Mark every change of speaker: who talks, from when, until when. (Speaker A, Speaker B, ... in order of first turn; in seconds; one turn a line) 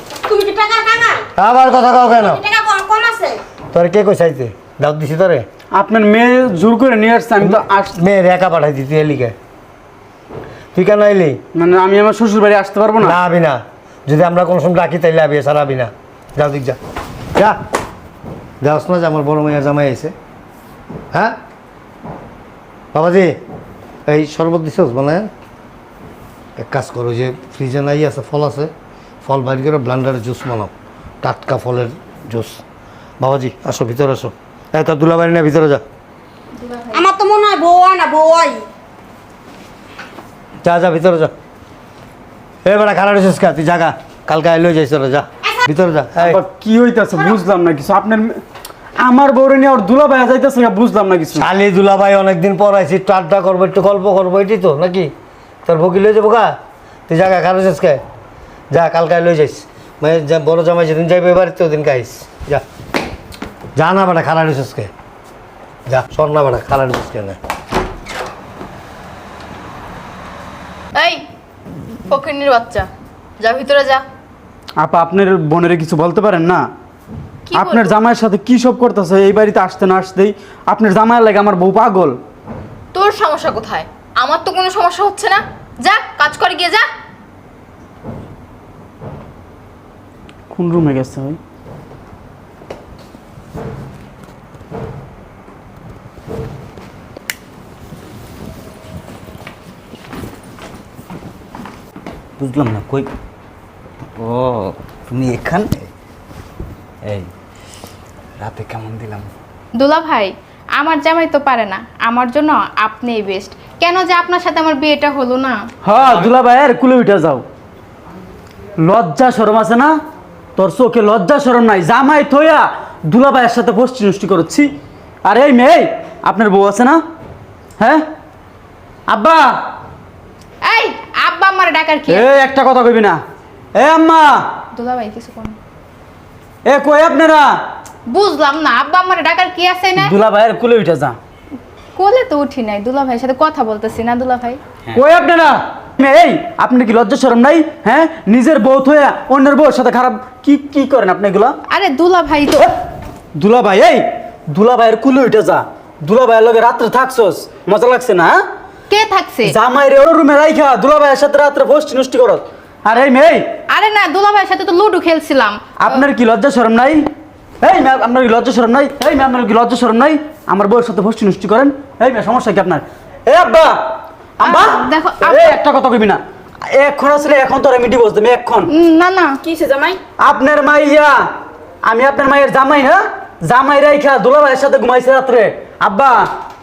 Speaker A: 0.3-1.2
Speaker B: 1.4-2.4
Speaker A: 2.1-3.4
Speaker B: 3.7-5.4
Speaker C: 5.8-8.0
Speaker B: 7.4-9.4
Speaker B: 10.8-11.4
Speaker C: 11.5-13.2
Speaker B: 13.0-16.8
Speaker B: 18.6-20.1
Speaker B: 22.9-23.4
Speaker B: 24.1-25.3
Speaker B: 26.6-28.7
Speaker B: 29.2-30.7
Speaker B: 31.2-32.6
Speaker B: 33.2-35.8
Speaker D: 36.5-37.1
Speaker A: 36.9-38.6
Speaker B: 40.6-41.3
Speaker B: 42.6-46.4
Speaker C: 46.2-48.4
Speaker C: 49.0-51.5
Speaker B: 51.4-55.1
Speaker B: 55.6-56.5
Speaker B: 57.1-58.0
Speaker B: 58.7-62.6
Speaker B: 63.8-64.9
Speaker B: 65.9-67.4
Speaker E: 70.9-71.2
Speaker E: 72.1-72.9
Speaker E: 73.4-74.0
Speaker C: 74.8-76.7
Speaker E: 77.5-77.9
Speaker C: 77.5-82.2
Speaker E: 82.9-86.9
Speaker C: 90.5-91.4
Speaker F: 102.4-103.1
Speaker F: 104.2-105.9
Speaker F: 107.0-107.3
Speaker F: 108.4-109.3
Speaker D: 109.8-115.6
Speaker C: 115.8-117.4
Speaker F: 116.0-116.3
Speaker C: 118.8-119.9
Speaker C: 120.5-124.7
Speaker C: 125.2-127.0
Speaker C: 127.8-128.0
Speaker C: 129.1-129.6
Speaker D: 130.6-132.3
Speaker C: 132.1-133.2
Speaker C: 133.8-134.5
Speaker D: 134.7-135.6
Speaker C: 136.7-137.6
Speaker D: 138.1-140.1
Speaker C: 139.9-141.2
Speaker D: 141.9-144.6
Speaker C: 144.9-151.6
Speaker D: 151.7-152.7
Speaker C: 153.4-158.4
Speaker D: 158.9-159.5
Speaker C: 159.4-163.5
Speaker D: 163.7-166.0
Speaker C: 165.8-167.1
Speaker C: 167.6-173.8
Speaker C: 174.4-178.7
Speaker D: 174.4-175.6
Speaker D: 178.7-179.4
Speaker A: 179.4-180.0
Speaker C: 180.2-181.3
Speaker C: 181.8-186.3